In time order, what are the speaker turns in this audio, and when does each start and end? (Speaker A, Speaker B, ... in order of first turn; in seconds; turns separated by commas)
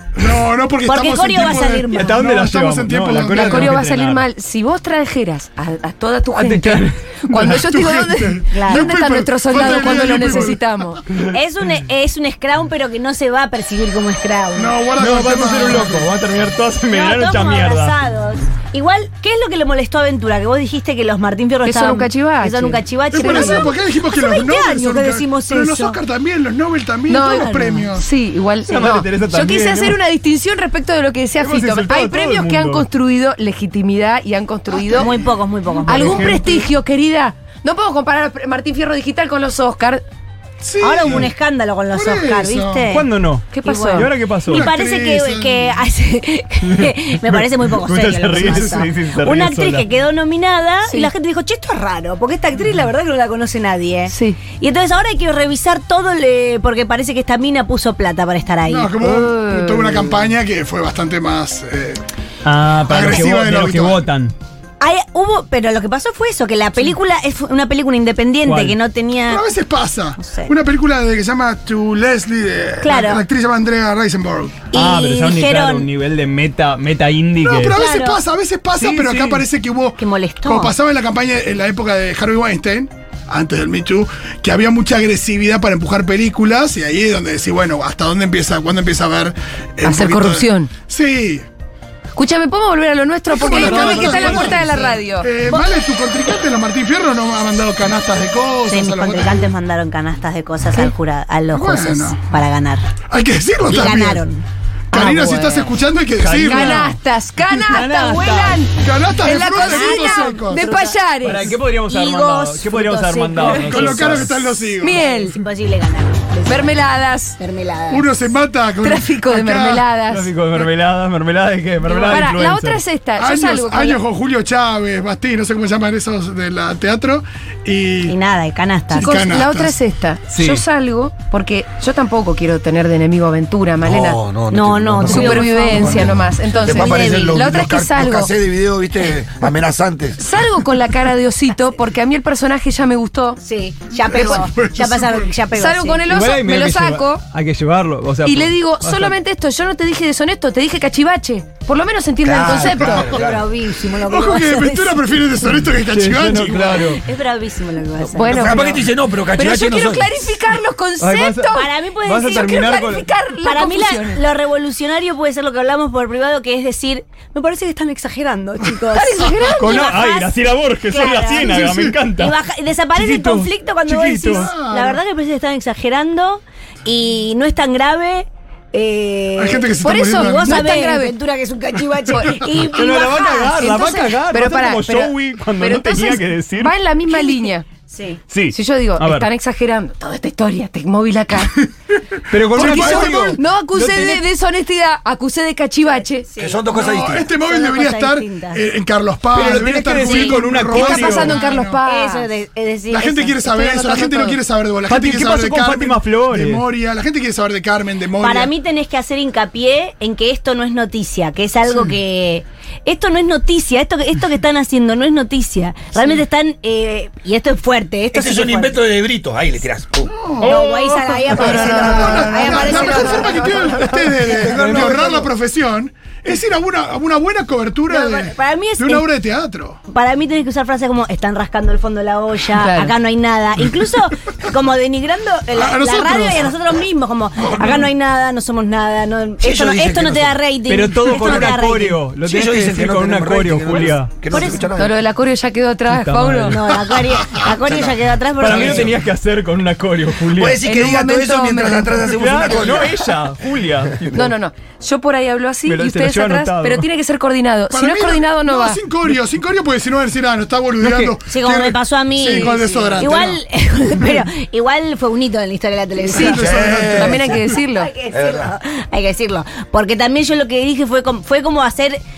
Speaker A: 0.2-3.8, Speaker B: 0.8-2.2, Speaker C: 1.9-4.2, Speaker D: 3.3-11.0, Speaker C: 6.3-7.7, Speaker A: 7.4-10.6, Speaker B: 8.5-9.0, Speaker B: 9.7-10.2, Speaker B: 11.3-14.8, Speaker A: 14.5-16.1, Speaker C: 14.9-18.0, Speaker B: 16.9-26.0, Speaker D: 21.6-23.6, Speaker A: 23.1-28.1, Speaker D: 27.1-35.1, Speaker C: 28.6-30.0, Speaker C: 31.4-32.9, Speaker A: 34.7-35.4, Speaker B: 34.9-36.3, Speaker D: 35.9-40.0, Speaker C: 35.9-36.7, Speaker A: 40.6-41.4, Speaker B: 40.8-43.1, Speaker A: 41.9-42.9, Speaker C: 42.9-44.7, Speaker D: 43.5-44.1, Speaker B: 43.7-58.9, Speaker A: 44.5-45.8, Speaker C: 46.6-49.9, Speaker D: 50.9-51.1, Speaker D: 54.1-54.4, Speaker A: 58.6-62.0, Speaker D: 59.0-60.3, Speaker C: 62.4-64.3, Speaker A: 62.8-64.1, Speaker B: 64.8-69.4, Speaker C: 68.4-68.8, Speaker A: 69.3-74.6, Speaker B: 70.2-70.5, Speaker B: 72.8-73.2, Speaker B: 74.7-75.9, Speaker C: 74.7-77.8, Speaker A: 77.4-91.5, Speaker B: 77.6-78.2, Speaker C: 78.8-79.4, Speaker B: 80.0-80.7, Speaker D: 89.8-90.7, Speaker D: 92.2-95.3, Speaker A: 93.3-99.4, Speaker B: 93.6-95.0, Speaker C: 93.6-94.6, Speaker B: 98.7-102.8, Speaker A: 101.5-102.2, Speaker A: 103.1-104.2, Speaker B: 103.7-104.4, Speaker C: 104.9-105.7, Speaker A: 104.9-106.9, Speaker C: 106.2-108.7, Speaker D: 106.4-108.7, Speaker A: 108.8-110.9, Speaker D: 109.2-111.6, Speaker B: 109.3-111.0, Speaker C: 111.1-114.5, Speaker B: 111.5-114.3, Speaker A: 113.5-115.0, Speaker D: 114.8-115.4, Speaker B: 114.8-118.3, Speaker D: 116.5-117.4, Speaker A: 117.9-119.8, Speaker D: 118.8-120.3, Speaker C: 120.0-122.8, Speaker D: 121.9-124.0, Speaker A: 123.2-128.1, Speaker B: 128.0-129.2, Speaker A: 128.9-129.8, Speaker D: 128.9-134.2, Speaker C: 130.3-130.6, Speaker E: 133.8-140.2, Speaker B: 134.5-137.4, Speaker D: 135.0-138.3, Speaker D: 140.2-143.4, Speaker B: 143.4-146.0, Speaker A: 143.9-145.4, Speaker D: 144.1-144.4, Speaker D: 145.5-147.2, Speaker C: 146.1-149.2, Speaker D: 148.2-153.0, Speaker E: 152.2-153.5, Speaker A: 152.8-153.1, Speaker B: 152.9-155.0, Speaker A: 153.8-156.9, Speaker C: 155.8-157.0, Speaker B: 156.7-158.8, Speaker D: 158.1-158.8, Speaker E: 158.2-160.3, Speaker D: 159.3-164.2, Speaker C: 161.0-163.1, Speaker B: 161.5-162.7, Speaker B: 163.4-183.5, Speaker D: 168.9-169.9, Speaker C: 169.5-172.4, Speaker A: 170.9-172.0, Speaker C: 172.9-174.6, Speaker A: 174.2-175.0, Speaker A: 179.4-180.8, Speaker D: 179.9-181.1, Speaker D: 182.1-187.7, Speaker C: 182.7-186.8, Speaker B: 187.1-188.2, Speaker C: 188.3-189.3, Speaker D: 188.5-191.6, Speaker C: 192.3-194.2, Speaker A: 192.4-193.4, Speaker D: 192.6-196.3, Speaker B: 196.2-196.6, Speaker E: 196.4-197.3, Speaker A: 196.7-201.8, Speaker B: 197.3-198.7, Speaker C: 199.3-201.4, Speaker D: 199.9-202.3, Speaker B: 201.8-204.4, Speaker A: 202.9-208.5, Speaker C: 204.9-206.6, Speaker B: 208.1-218.8, Speaker E: 218.1-220.1, Speaker A: 220.1-220.6, Speaker B: 220.4-224.8, Speaker C: 220.7-221.1, Speaker A: 221.3-229.8, Speaker D: 222.4-223.7, Speaker E: 224.2-225.3, Speaker B: 227.9-229.1, Speaker B: 229.9-242.1, Speaker D: 232.5-232.9, Speaker A: 235.5-236.5, Speaker A: 237.6-237.9, Speaker E: 239.4-240.4, Speaker C: 240.6-244.2, Speaker E: 241.3-241.5, Speaker E: 242.2-244.9, Speaker B: 244.3-244.7, Speaker D: 244.8-246.6, Speaker C: 245.9-246.6, Speaker B: 246.5-249.0, Speaker E: 247.5-248.9, Speaker C: 248.4-250.6, Speaker E: 250.3-253.1, Speaker D: 250.6-251.9, Speaker C: 252.0-254.3, Speaker D: 254.1-258.8, Speaker C: 255.7-256.9, Speaker A: 257.7-263.4, Speaker C: 260.8-261.1, Speaker B: 261.2-266.9, Speaker A: 266.0-267.4, Speaker D: 266.1-267.9, Speaker E: 266.2-267.4, Speaker B: 267.4-272.0, Speaker E: 268.1-268.5